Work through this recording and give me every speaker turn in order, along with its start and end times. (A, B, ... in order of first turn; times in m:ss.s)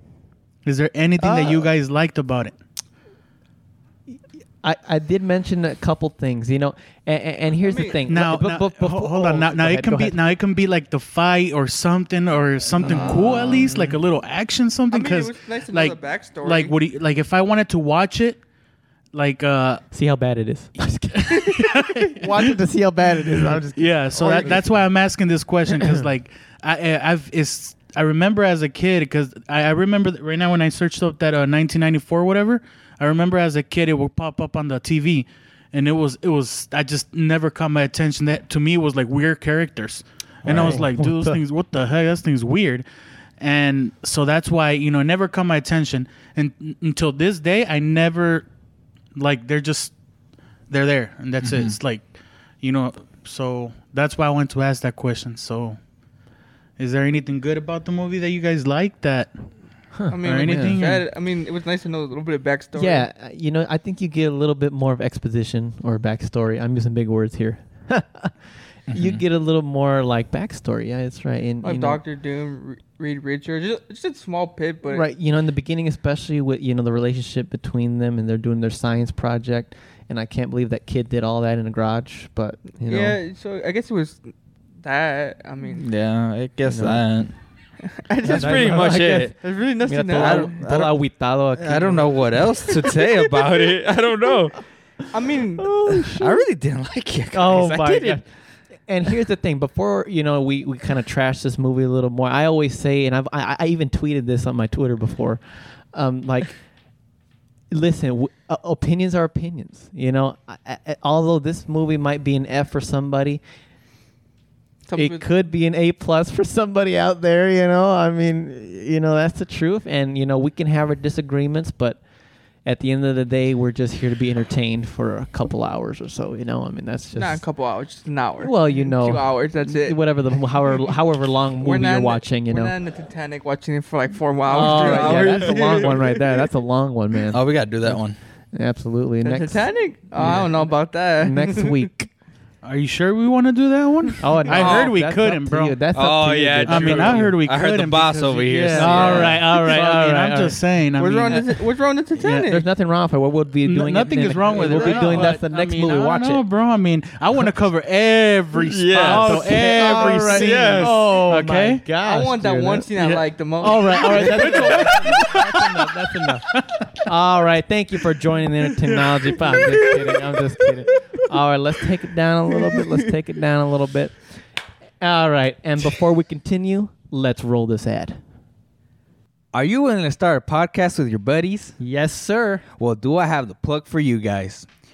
0:00.6-0:02.6 A
0:01.2-0:01.7 B
0:04.6-0:10.2 B
0:07.6-0:08.0 C
0:08.1-0:18.4 A
0:12.8-0:13.9 B
0:14.9-0:16.7 C
0:19.1-0:19.8 A
0:19.9-0:24.8 B
0:21.2-0:22.5 A
0:23.7-0:42.9 A
0:24.2-0:24.6 C
0:25.8-0:26.1 B
0:40.4-0:40.9 D
0:40.5-0:41.4 B
0:43.4-0:48.5 A
0:49.2-0:49.9 A
0:50.7-0:55.8 A
0:51.4-0:51.8 D
0:56.8-0:59.4 A
0:59.9-1:00.8 B
1:00.1-1:03.1 C
1:00.2-1:01.0 A
1:02.8-1:08.4 B
1:08.9-1:09.2 D
1:08.9-1:12.0 B
1:11.6-1:15.0 C
1:14.9-1:23.2 B
1:22.8-1:25.9 C
1:25.7-1:27.4 D
1:26.6-1:27.0 B
1:27.9-1:30.6 C
1:28.2-1:32.5 B
1:28.3-1:29.3 D
1:30.1-1:31.0 D
1:31.6-1:34.6 D
1:35.1-1:35.7 C
1:35.6-1:36.4 B
1:36.1-1:38.2 D
1:37.3-1:46.6 B
1:47.7-1:53.4 B
1:54.9-1:55.3 C
1:55.0-2:02.0 B
2:02.6-2:07.4 B
2:07.2-2:10.0 C
2:08.4-2:12.7 B
2:11.6-2:16.2 C
2:14.5-2:18.0 B
2:14.7-2:15.3 A
2:14.8-2:15.4 D
2:17.3-2:18.2 D
2:18.5-2:22.1 B
2:19.2-2:21.9 C
2:20.2-2:20.5 A
2:22.6-2:25.8 A
2:24.2-2:27.4 B
2:24.4-2:24.9 C
2:25.9-2:29.4 D
2:26.7-2:31.6 A
2:28.7-2:30.6 B
2:31.0-2:32.6 C
2:32.2-2:32.5 A
2:32.4-2:36.4 B
2:33.6-2:41.8 A
2:34.5-2:35.4 D
2:38.6-2:39.6 D
2:39.0-2:42.9 B
2:39.8-2:40.9 C
2:40.3-2:40.9 D
2:42.0-2:45.2 C
2:43.0-2:46.9 A
2:43.6-2:46.4 B
2:47.0-2:54.4 B
2:49.5-2:50.2 C
2:52.7-2:53.1 C
2:55.0-2:58.2 B
2:59.5-3:01.8 D
3:01.8-3:02.6 B
3:02.8-3:04.7 D